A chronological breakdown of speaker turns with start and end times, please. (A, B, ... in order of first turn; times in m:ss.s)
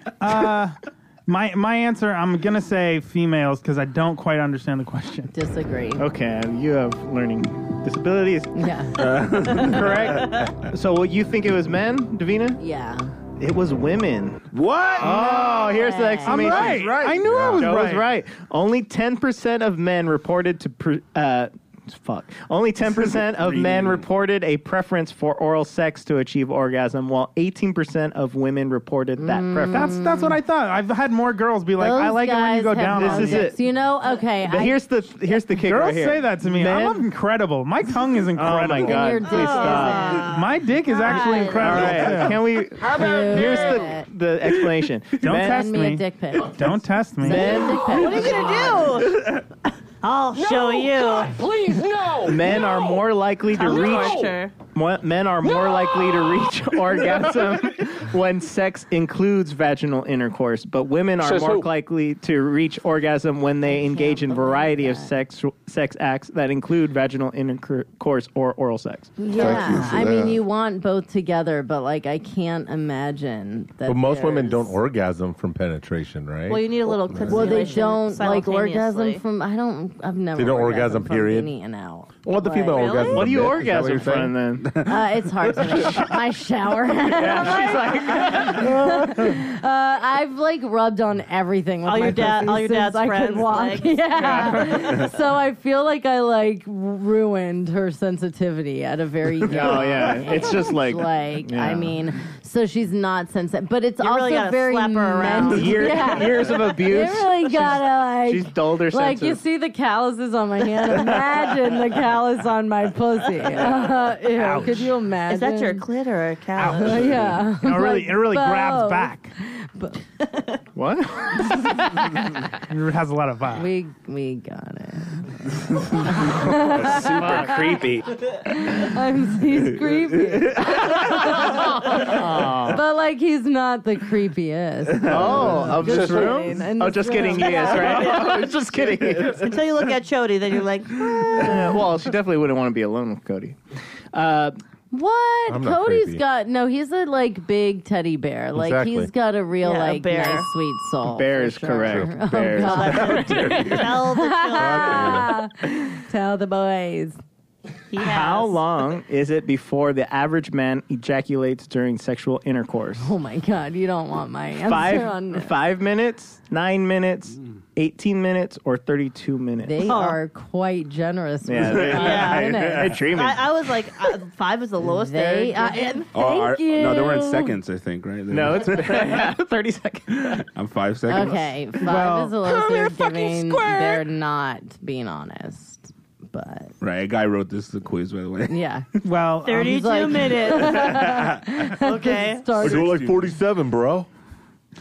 0:00.2-0:05.3 A
0:05.3-0:06.1 B
0:06.0-0:08.7 C
0:08.6-0:09.0 B
0:09.0-0:10.6 D
0:09.6-0:12.6 C
0:09.6-0:10.5 E
0:12.6-0:13.1 B
0:13.4-0:14.5 C
0:14.5-0:15.3 D
0:15.0-0:17.0 C
0:15.0-0:16.7 B
0:16.2-0:18.1 A
0:16.6-0:17.0 F
0:17.2-0:17.7 G
0:17.6-0:30.0 C
0:22.9-0:24.1 D
0:29.2-0:30.4 B
0:29.7-0:33.5 A
0:31.8-0:34.8 B
0:33.0-0:33.6 C
0:34.4-0:37.1 C
0:35.6-0:39.3 A
0:38.3-0:40.3 C
0:38.8-0:40.4 B
0:39.3-0:42.1 E
0:40.2-0:42.5 A
0:41.5-0:45.7 C
0:42.8-0:43.9 F
0:42.8-0:44.1 B
0:45.2-0:47.6 A
0:45.3-0:48.8 B
0:47.2-0:48.7 C
0:47.7-0:49.4 E
0:48.2-0:48.9 F
0:49.0-0:49.4 D
0:50.0-0:51.4 E
0:50.4-0:54.4 F
0:52.3-1:09.8 C
0:53.5-0:54.5 E
0:55.4-0:57.3 F
1:01.2-1:01.7 F
1:03.7-1:05.2 B
1:09.2-1:14.8 B
1:09.4-1:10.2 G
1:09.4-1:10.4 F
1:13.9-1:17.6 G
1:16.5-1:19.2 E
1:17.3-1:23.0 B
1:20.4-1:21.5 G
1:22.2-1:24.4 G
1:22.6-1:23.3 E
1:23.1-1:24.7 C
1:24.6-1:25.0 D
1:24.8-1:55.9 B
1:25.7-1:26.0 D
1:27.1-1:29.0 C
1:31.8-1:35.1 E
1:34.2-1:34.8 C
1:39.5-1:42.0 C
1:44.0-1:46.4 E
1:45.3-1:49.4 C
1:54.3-1:54.9 A
1:55.3-1:57.2 E
1:56.6-1:59.3 A
1:56.7-2:00.0 B
2:00.8-2:01.8 C
2:02.7-2:03.7 A
2:03.5-2:07.8 B
2:05.7-2:08.2 D
2:06.9-2:08.0 C
2:08.4-2:18.2 B
2:09.8-2:11.4 D
2:11.9-2:12.8 C
2:15.0-2:16.1 D
2:15.1-2:19.5 C
2:17.3-2:18.5 E
2:18.9-2:19.5 D
2:19.4-2:21.5 E
2:21.0-2:21.5 D
2:21.3-2:23.6 C
2:24.1-2:24.6 C
2:24.9-2:37.2 B
2:25.5-2:26.2 G
2:28.6-2:29.1 G
2:29.6-2:30.5 E
2:31.0-2:33.8 C
2:31.8-2:32.5 G
2:32.6-2:35.3 E
2:33.2-2:33.8 G
2:34.6-2:35.2 G
2:37.9-2:38.6 E
2:38.0-2:43.1 C
2:43.0-2:45.5 B
2:44.6-2:49.8 C
2:49.6-2:53.0 B
2:49.8-2:50.2 E
2:51.4-2:53.5 C
2:51.6-2:53.0 D
2:52.0-2:52.5 E
2:53.1-2:56.1 E
2:54.9-2:57.6 B
2:56.1-2:59.3 D
2:58.3-3:00.5 C
3:00.4-3:01.6 D
3:01.1-3:06.7 B
3:01.8-3:02.4 A
3:02.8-3:04.0 C
3:06.8-3:08.6 D
3:08.5-3:08.9 B
3:09.0-3:09.9 A
3:09.4-3:11.1 E
3:09.5-3:13.0 B
3:10.9-3:11.5 D
3:11.7-3:12.6 E
3:12.6-3:13.3 D
3:12.6-3:14.1 G